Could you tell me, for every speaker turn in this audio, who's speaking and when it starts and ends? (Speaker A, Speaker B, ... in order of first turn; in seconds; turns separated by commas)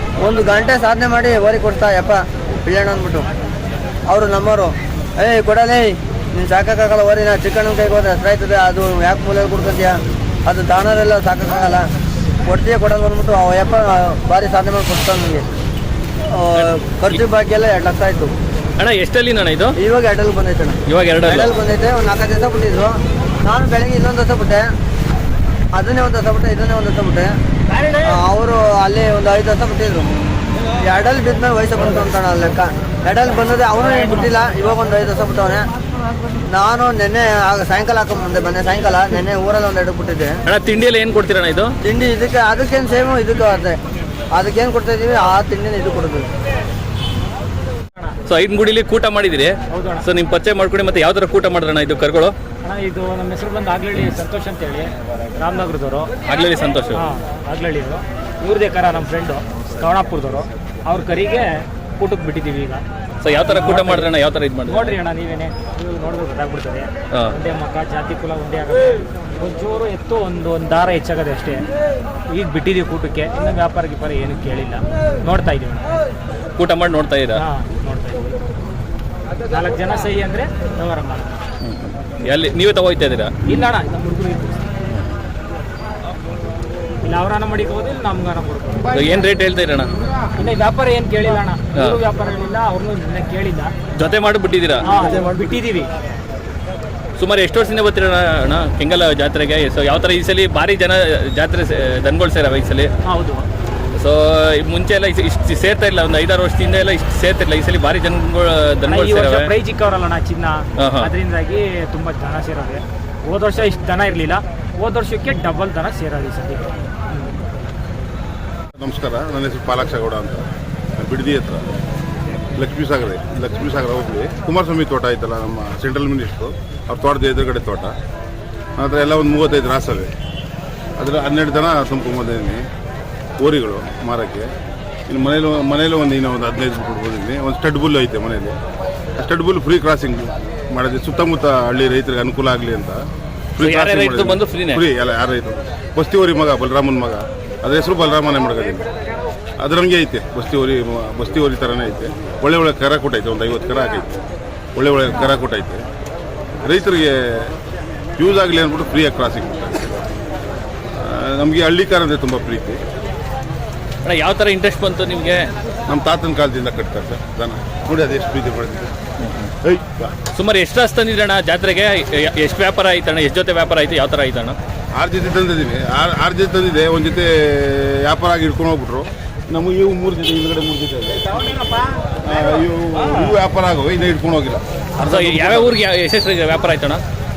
Speaker A: 0.2-3.3, Speaker A: 4.1-11.8, Speaker A: 12.4-15.4, Speaker A: 16.3-18.3, Speaker B: 16.5-17.2, Speaker B: 18.8-19.8, Speaker A: 19.8-24.7, Speaker B: 20.9-21.5, Speaker A: 25.7-27.3, Speaker A: 28.0-30.1, Speaker A: 30.8-35.6, Speaker A: 36.5-40.4, Speaker B: 40.5-41.7, Speaker A: 41.8-43.8, Speaker A: 44.3-46.3, Speaker B: 48.3-52.3, Speaker C: 49.7-50.0, Speaker C: 52.6-54.8, Speaker C: 55.4-56.1, Speaker B: 56.2-57.0, Speaker C: 57.0-61.5, Speaker C: 62.0-62.8, Speaker B: 63.2-65.0, Speaker C: 63.6-64.1, Speaker C: 64.7-71.6, Speaker C: 72.3-75.9, Speaker B: 76.5-77.4, Speaker C: 77.4-78.3, Speaker C: 79.5-81.4, Speaker B: 81.6-83.3, Speaker C: 83.5-84.6, Speaker C: 87.0-88.8, Speaker B: 88.9-89.9, Speaker C: 90.4-93.7, Speaker B: 94.0-94.8, Speaker C: 94.8-95.9, Speaker B: 97.2-102.9, Speaker C: 103.1-103.4, Speaker B: 104.0-109.5, Speaker C: 108.9-117.3, Speaker B: 110.8-111.1, Speaker D: 118.8-120.5, Speaker D: 121.0-121.6, Speaker D: 122.5-127.9, Speaker D: 128.8-130.1, Speaker D: 131.0-132.6, Speaker D: 133.4-134.5, Speaker D: 135.1-138.6, Speaker D: 139.2-143.0, Speaker D: 143.6-148.8, Speaker B: 143.6-144.8, Speaker D: 149.6-154.1, Speaker D: 154.8-155.8, Speaker D: 156.6-157.1, Speaker D: 158.2-160.0, Speaker D: 161.0-162.8, Speaker B: 164.0-165.4, Speaker D: 165.9-168.9, Speaker B: 169.2-169.5, Speaker D: 169.6-170.1, Speaker B: 170.3-174.6, Speaker D: 174.9-181.3, Speaker D: 182.2-185.7, Speaker B: 185.0-187.0